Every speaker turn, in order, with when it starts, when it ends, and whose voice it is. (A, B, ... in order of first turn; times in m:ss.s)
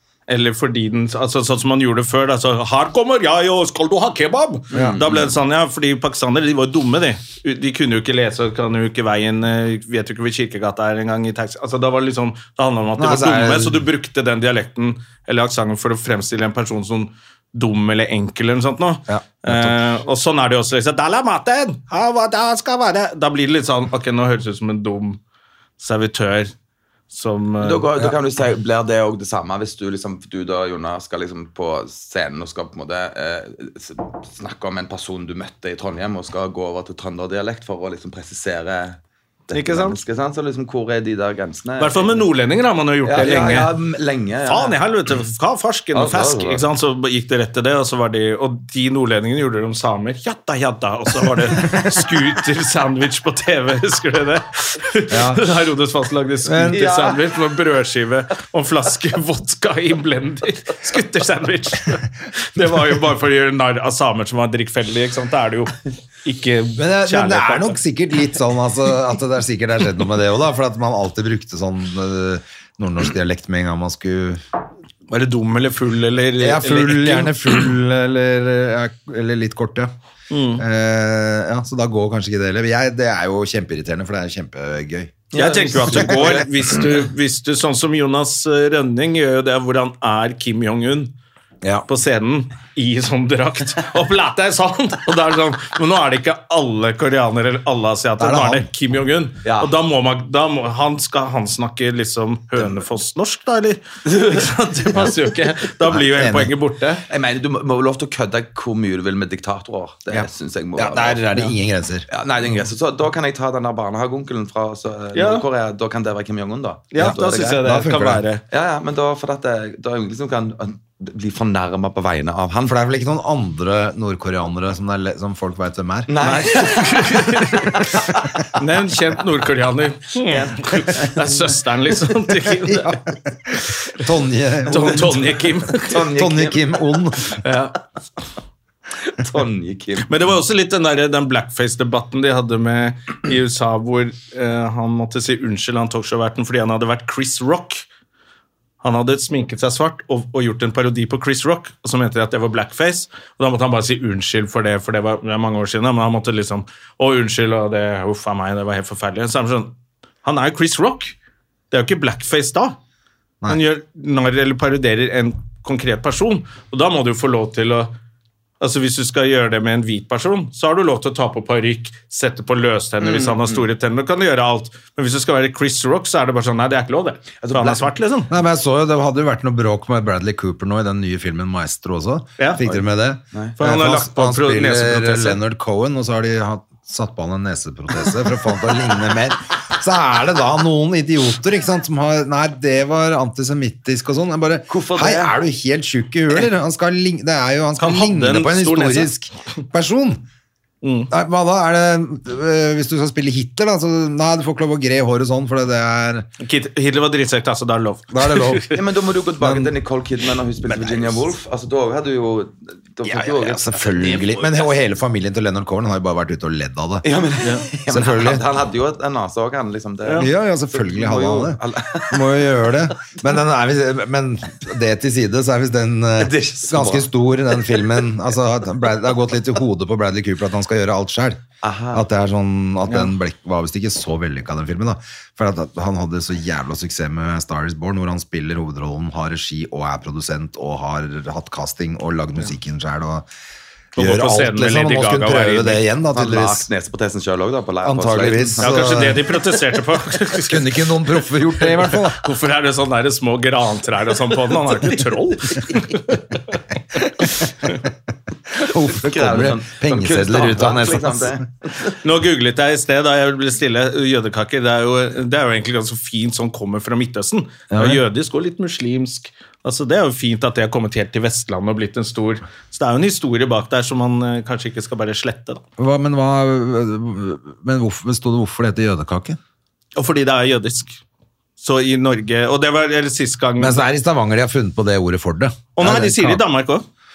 0:00.3-0:25.2 A
0:04.7-0:05.3 B
0:04.7-0:05.0 C
0:13.0-0:13.8 C
0:19.1-0:19.8 C
0:25.8-0:26.5 A
0:27.1-0:27.9 A
0:27.6-0:39.0 B
0:39.5-0:40.0 A
0:39.5-0:42.2 B
0:41.8-0:43.7 A
0:43.0-0:44.8 B
0:44.4-1:07.8 A
0:45.9-0:46.6 B
0:55.1-0:55.4 C
0:56.4-0:56.8 C
0:56.7-0:57.2 B
1:06.8-1:14.4 C
1:15.1-1:17.7 A
1:16.4-1:19.9 C
1:20.3-1:20.6 A
1:20.6-1:25.2 C
1:25.3-1:27.0 B
1:25.3-1:31.1 A
1:25.8-1:26.4 C
1:31.9-1:47.0 A
1:38.2-1:38.7 C
1:39.4-1:39.7 B
1:45.8-1:46.5 C
1:47.1-1:51.3 B
1:50.1-1:52.1 C
1:52.1-1:57.6 B
1:55.1-1:55.4 A
1:56.9-1:58.4 A
1:57.0-1:58.2 C
1:58.5-2:02.8 B
2:02.6-2:06.4 C
2:06.1-2:08.4 B
2:06.2-2:13.0 A
2:10.3-2:11.5 B
2:12.6-2:15.4 C
2:14.7-2:16.0 A
2:15.8-2:17.0 B
2:16.0-2:17.4 C
2:17.4-2:17.8 A
2:19.1-2:20.2 B
2:20.0-2:27.8 A
2:28.8-2:41.1 A
2:41.7-2:42.8 A
2:43.5-2:47.9 A
2:48.6-2:58.3 A
2:53.0-2:53.6 B
2:57.4-2:57.9 B
2:58.3-3:20.2 C
3:02.4-3:02.6 A
3:03.6-3:05.4 A
3:14.7-3:15.4 B
3:17.8-3:19.1 A
3:20.8-3:21.1 A
3:21.1-3:26.3 C
3:26.4-3:28.7 A
3:28.1-3:28.6 C
3:28.7-3:34.6 B
3:29.4-3:29.7 C
3:30.6-3:31.2 C
3:33.0-3:37.0 C
3:37.0-3:42.9 B
3:37.9-3:38.4 C
3:40.2-3:51.4 C
3:46.2-3:48.0 B
3:51.6-3:52.0 B
3:51.9-4:03.3 C
4:03.9-4:06.7 C
4:04.0-4:05.8 A
4:06.1-4:09.2 B
4:07.8-4:09.2 C
4:08.6-4:10.9 A
4:10.4-4:12.2 C
4:11.6-4:16.6 A
4:17.0-4:17.8 C
4:18.5-4:21.4 C
4:18.7-4:21.9 B
4:22.0-4:35.6 A
4:27.7-4:28.0 C
4:35.8-4:39.4 C
4:40.0-4:41.0 A
4:41.6-4:43.8 A
4:43.6-4:46.4 C
4:45.8-4:46.8 A